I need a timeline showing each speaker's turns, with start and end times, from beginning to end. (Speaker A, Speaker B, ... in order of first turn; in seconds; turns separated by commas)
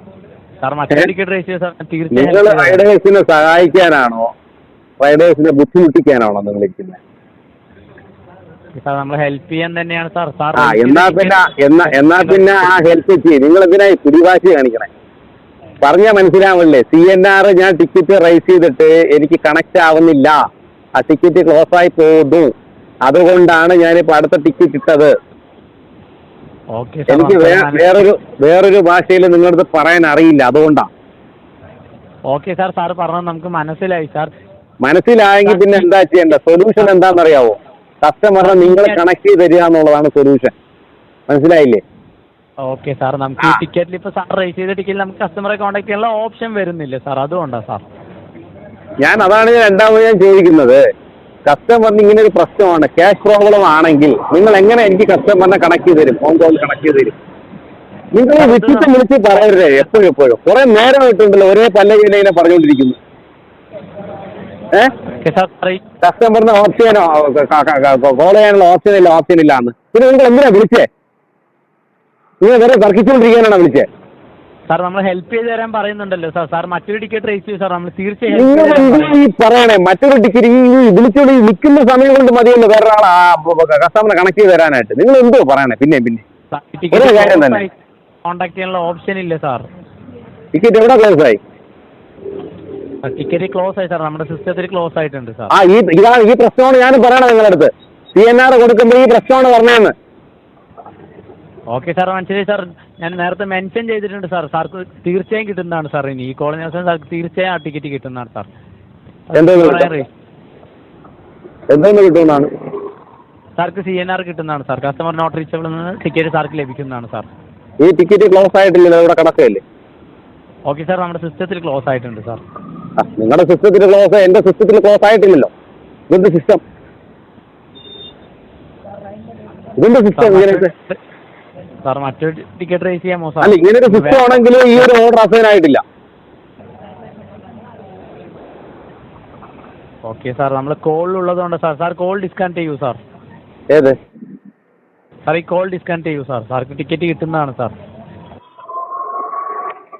Speaker A: 0.6-2.9, Speaker B: 2.1-4.3, Speaker B: 5.0-7.0, Speaker A: 8.7-12.7, Speaker B: 10.6-14.9, Speaker B: 15.8-20.4, Speaker B: 20.9-22.5, Speaker B: 23.0-25.1, Speaker A: 26.7-28.0, Speaker B: 27.1-30.9, Speaker A: 32.3-34.3, Speaker B: 34.8-40.5, Speaker A: 35.4-35.9, Speaker A: 36.8-37.1, Speaker A: 38.4-39.0, Speaker B: 41.3-41.8, Speaker A: 42.6-47.8, Speaker B: 49.0-50.8, Speaker B: 51.5-57.1, Speaker B: 58.1-63.0, Speaker A: 58.4-58.9, Speaker A: 65.1-65.8, Speaker B: 66.0-70.9, Speaker B: 72.4-73.9, Speaker A: 74.7-79.2, Speaker B: 78.3-86.2, Speaker A: 86.5-89.7, Speaker B: 86.9-87.6, Speaker B: 90.5-91.4, Speaker A: 93.0-95.5, Speaker B: 95.5-99.9, Speaker A: 101.7-108.5, Speaker A: 109.3-110.1, Speaker B: 109.3-109.9, Speaker B: 111.7-112.5, Speaker A: 113.6-117.3, Speaker B: 117.8-119.6, Speaker A: 120.7-122.4, Speaker B: 123.0-125.5, Speaker B: 126.1-126.6, Speaker B: 129.8-130.7, Speaker A: 130.1-131.0, Speaker A: 131.8-134.8, Speaker B: 133.4-135.8, Speaker A: 140.0-143.0, Speaker B: 143.7-143.9, Speaker A: 145.2-147.7